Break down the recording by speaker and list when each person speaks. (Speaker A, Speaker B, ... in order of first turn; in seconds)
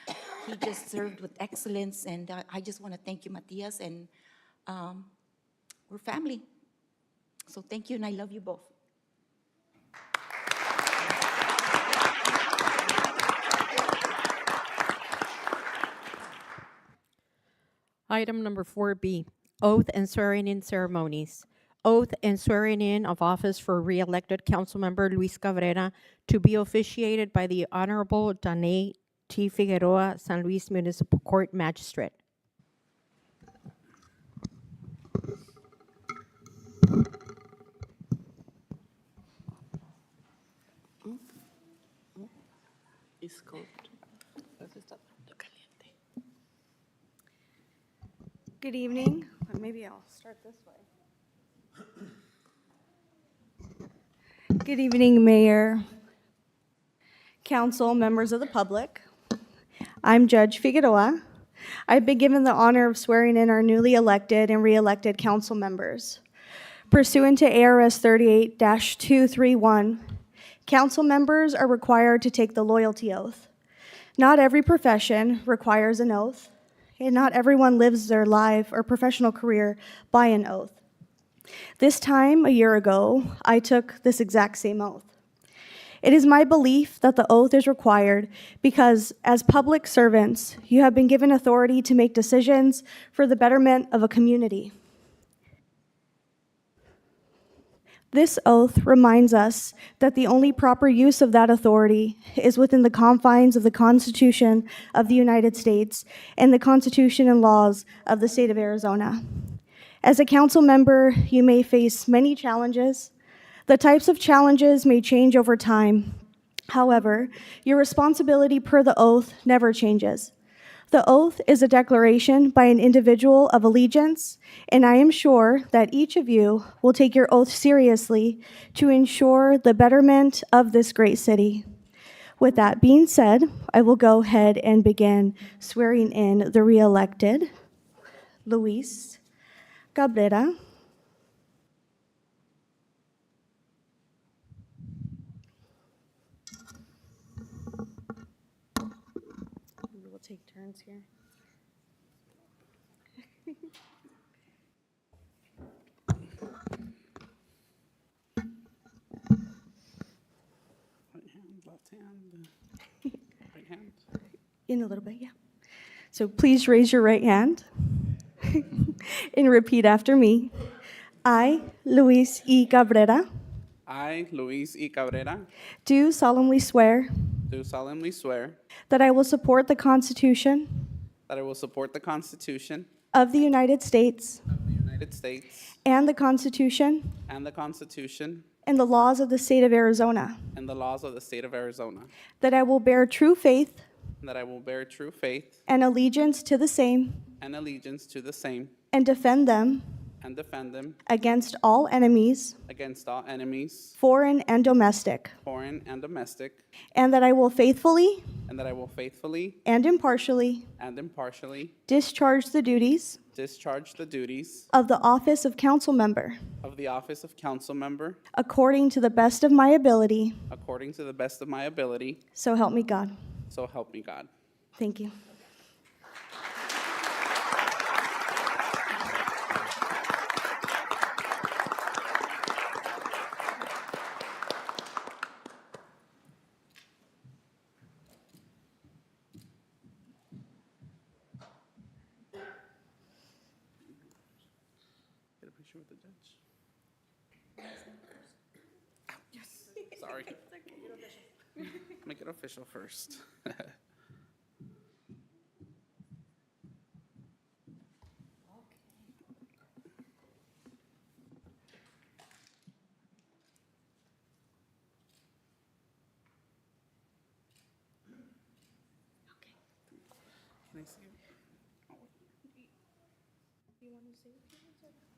Speaker A: 0.4-4.1, 4.7-5.1, 5.9-6.5, 7.5-8.7
Speaker B: 18.1-32.2
Speaker C: 48.6-50.8, 54.5-55.8, 57.4-59.0, 60.0-61.2, 61.9-66.2, 66.9-70.0, 70.7-73.5, 74.2-80.8, 81.8-85.1, 86.0-94.7, 98.1-113.1, 113.7-116.2, 116.7-120.3, 120.9-131.6, 132.4-137.5, 138.4-139.2, 139.9-140.5, 149.9-151.1, 164.7-165.3, 166.1-167.6, 168.4-170.5, 171.2-173.2, 175.8-177.1, 178.9-180.9, 183.1-184.4, 185.8-187.2, 188.7-190.4, 192.4-193.8, 195.7-197.2, 198.9-199.8, 201.1-202.6, 204.0-205.3, 206.9-208.2, 209.7-210.7, 211.9-213.2, 214.7-216.4, 218.3-220.4, 222.3-223.1, 224.8-225.1
Speaker D: 161.1-162.5, 163.5-164.0, 173.9-175.5, 177.5-178.6, 181.3-182.9, 184.9-185.7, 187.3-188.4, 190.6-192.1, 194.2-195.6, 197.4-198.7, 200.2-201.0, 202.7-204.0, 205.4-206.6, 208.5-209.6, 210.8-211.8, 213.3-214.7, 216.6-218.2, 220.5-222.2, 223.5-224.3, 245.4-246.4, 249.3-250.5, 252.0-253.7, 270.7-271.2